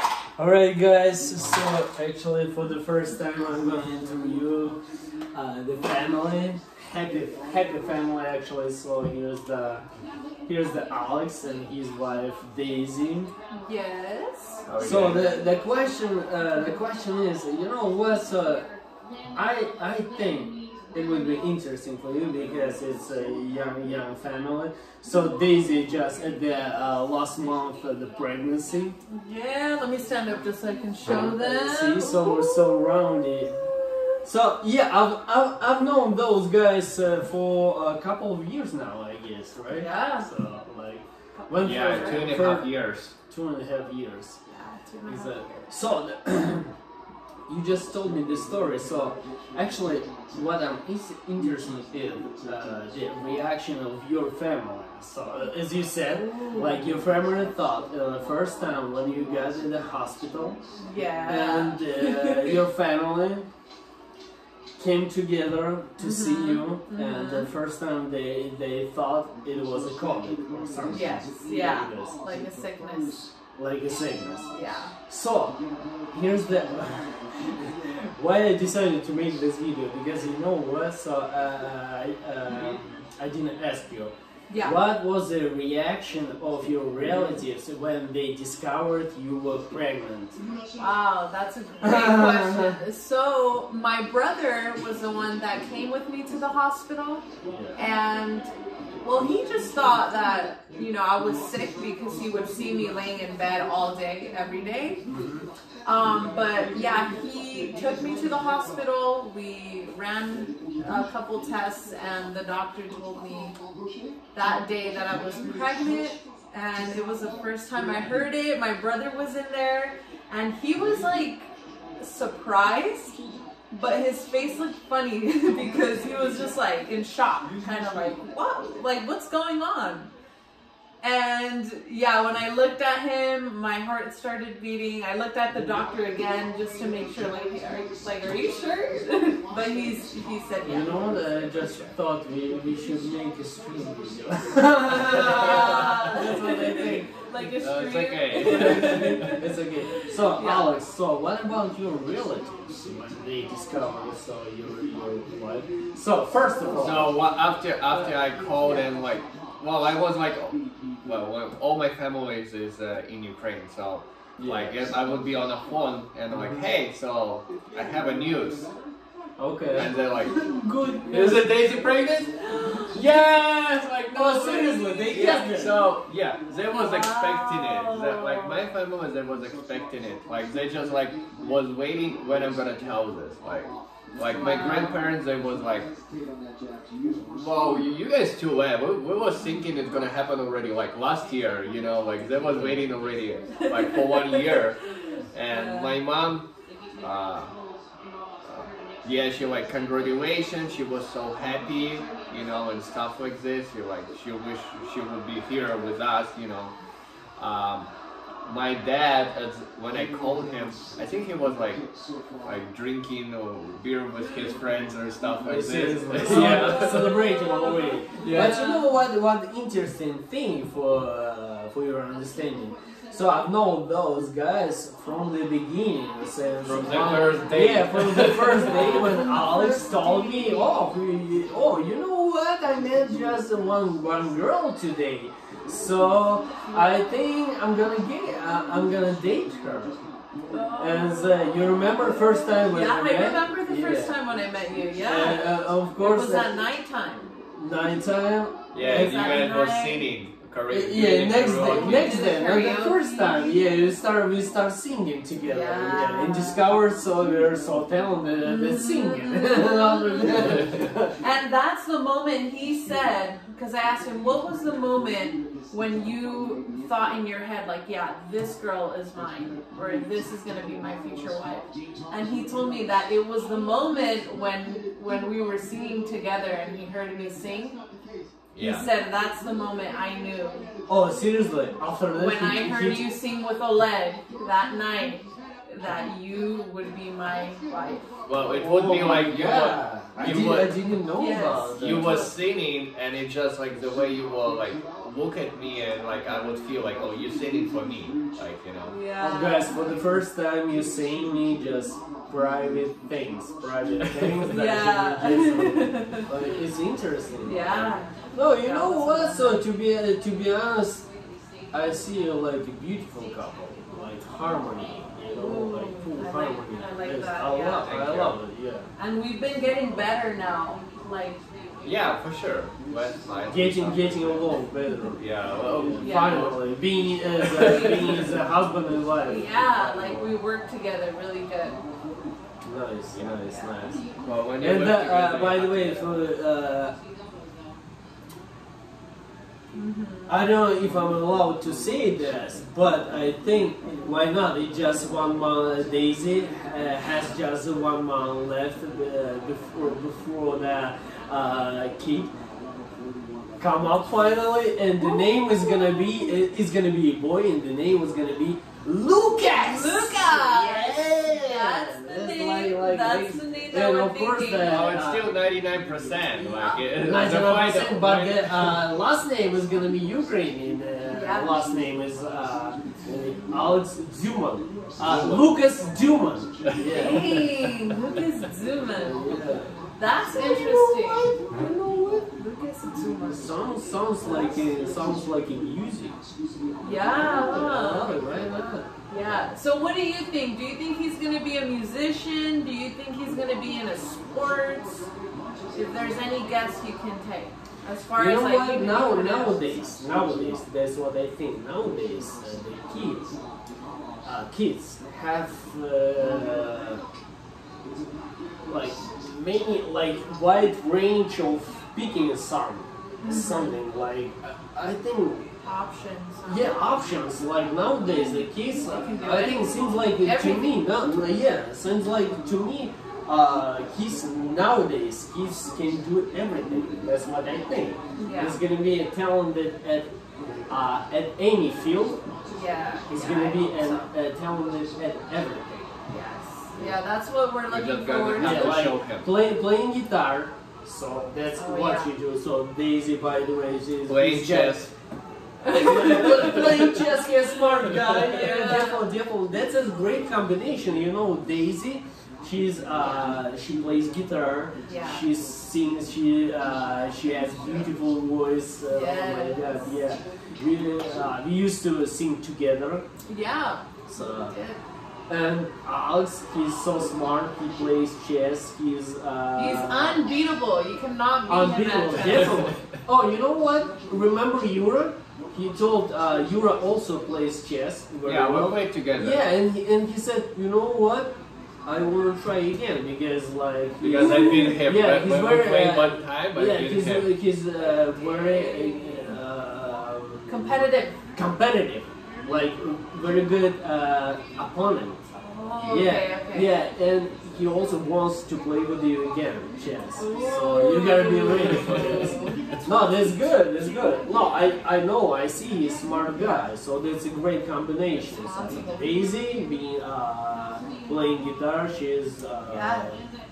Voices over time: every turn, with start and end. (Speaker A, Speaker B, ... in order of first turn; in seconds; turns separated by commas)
Speaker A: 0.4-4.8, Speaker A: 5.3-9.8, Speaker A: 10.5-13.3, Speaker B: 13.6-14.6, Speaker C: 14.7-15.3, Speaker A: 14.8-18.7, Speaker A: 19.3-29.0, Speaker B: 29.1-32.7, Speaker A: 31.1-33.6, Speaker A: 34.2-42.7, Speaker B: 39.7-40.3, Speaker B: 41.3-42.3, Speaker C: 41.6-43.1, Speaker A: 43.3-44.4, Speaker B: 44.5-45.7, Speaker A: 45.1-46.7, Speaker A: 47.5-60.6, Speaker B: 56.2-56.8, Speaker B: 60.8-62.6, Speaker A: 61.3-63.5, Speaker A: 64.8-72.2, Speaker B: 66.0-67.5, Speaker B: 70.9-73.2, Speaker A: 73.6-74.5, Speaker B: 74.5-74.9, Speaker A: 75.1-75.6, Speaker A: 76.1-90.4, Speaker B: 84.5-84.8, Speaker B: 90.8-97.2, Speaker A: 91.8-92.8, Speaker A: 97.5-97.8, Speaker B: 97.8-98.5, Speaker B: 99.0-105.0, Speaker A: 105.1-105.5, Speaker B: 105.8-113.6, Speaker B: 114.3-123.2, Speaker B: 123.7-130.1, Speaker B: 131.0-141.1, Speaker A: 140.6-147.6, Speaker B: 144.9-149.4, Speaker C: 147.6-149.4, Speaker A: 148.4-157.2, Speaker B: 150.2-150.7, Speaker C: 156.8-168.7, Speaker B: 157.9-158.9, Speaker A: 164.4-164.8, Speaker A: 166.3-166.6, Speaker A: 169.4-171.5, Speaker C: 169.7-170.5, Speaker C: 171.1-172.3, Speaker B: 172.5-172.9, Speaker C: 172.9-185.9, Speaker A: 174.1-175.9, Speaker B: 174.1-175.5, Speaker B: 176.7-178.7, Speaker B: 184.2-185.0, Speaker C: 187.3-194.8, Speaker B: 193.6-194.4, Speaker C: 195.3-196.5, Speaker B: 195.5-196.0, Speaker C: 197.0-197.6, Speaker C: 198.4-206.8, Speaker C: 207.4-207.9, Speaker C: 208.4-211.8, Speaker C: 212.4-217.2, Speaker A: 215.4-240.0, Speaker B: 216.3-218.8, Speaker C: 218.2-218.7, Speaker C: 226.7-229.1, Speaker B: 228.5-230.8, Speaker B: 240.5-247.3, Speaker A: 240.8-244.2, Speaker A: 245.0-246.6, Speaker A: 247.6-249.5, Speaker C: 248.7-252.3, Speaker B: 248.8-250.1, Speaker A: 250.7-261.1, Speaker B: 251.6-253.6, Speaker B: 255.4-256.6, Speaker B: 258.4-260.6, Speaker B: 261.2-277.8, Speaker C: 278.5-278.9, Speaker B: 278.6-280.7, Speaker A: 280.9-283.1, Speaker B: 282.1-288.1, Speaker C: 288.2-290.8, Speaker A: 288.5-292.3, Speaker B: 291.1-292.3, Speaker C: 291.8-298.9, Speaker B: 298.8-299.8, Speaker A: 299.2-311.1, Speaker B: 304.5-306.3, Speaker B: 307.4-309.6, Speaker A: 311.7-318.9, Speaker B: 315.3-317.9, Speaker C: 317.8-318.4, Speaker B: 319.0-321.4, Speaker C: 321.8-324.6, Speaker A: 323.5-330.3, Speaker C: 325.2-326.6, Speaker B: 326.0-326.6, Speaker C: 327.4-328.1, Speaker B: 327.6-328.2, Speaker B: 329.3-331.8, Speaker A: 332.6-334.1, Speaker C: 333.1-333.4, Speaker B: 333.4-333.8, Speaker C: 334.2-336.2, Speaker A: 334.6-337.0, Speaker B: 339.7-340.5, Speaker A: 340.3-352.3, Speaker A: 353.6-365.3, Speaker B: 355.0-356.2, Speaker B: 359.4-364.9, Speaker C: 364.6-368.9, Speaker B: 366.4-366.8, Speaker A: 366.9-377.4, Speaker B: 371.1-371.6, Speaker C: 375.1-375.5, Speaker B: 376.8-379.4, Speaker A: 379.0-379.7, Speaker B: 379.9-381.3, Speaker A: 380.3-382.3, Speaker B: 382.3-383.6, Speaker A: 383.3-386.2, Speaker B: 384.2-384.6, Speaker B: 386.8-388.2, Speaker A: 387.1-388.9, Speaker B: 389.1-395.1, Speaker B: 395.7-399.7, Speaker A: 398.2-403.3, Speaker A: 404.2-407.0, Speaker A: 408.7-415.5, Speaker B: 413.2-413.8, Speaker B: 415.6-416.9, Speaker A: 416.5-430.1, Speaker B: 418.8-420.8, Speaker B: 428.2-428.6, Speaker A: 430.7-432.2, Speaker B: 432.5-434.1, Speaker A: 433.1-436.0, Speaker B: 436.1-438.8, Speaker C: 437.7-439.3, Speaker A: 438.4-444.8, Speaker B: 441.6-442.1, Speaker C: 444.0-444.9, Speaker B: 445.6-447.1, Speaker A: 445.8-463.1, Speaker B: 448.3-449.1, Speaker B: 452.9-453.4, Speaker B: 454.9-455.3, Speaker B: 458.9-459.9, Speaker B: 463.3-464.8, Speaker A: 464.1-464.6, Speaker A: 465.3-470.2, Speaker B: 469.6-472.7, Speaker A: 471.5-490.5, Speaker C: 472.2-472.7, Speaker C: 478.2-479.5, Speaker C: 484.0-487.3, Speaker B: 488.1-489.3, Speaker B: 490.5-491.2, Speaker A: 491.4-495.2, Speaker B: 495.4-496.8, Speaker A: 495.8-513.2, Speaker B: 500.2-502.6, Speaker B: 506.4-506.6, Speaker B: 508.2-509.3, Speaker B: 512.7-513.2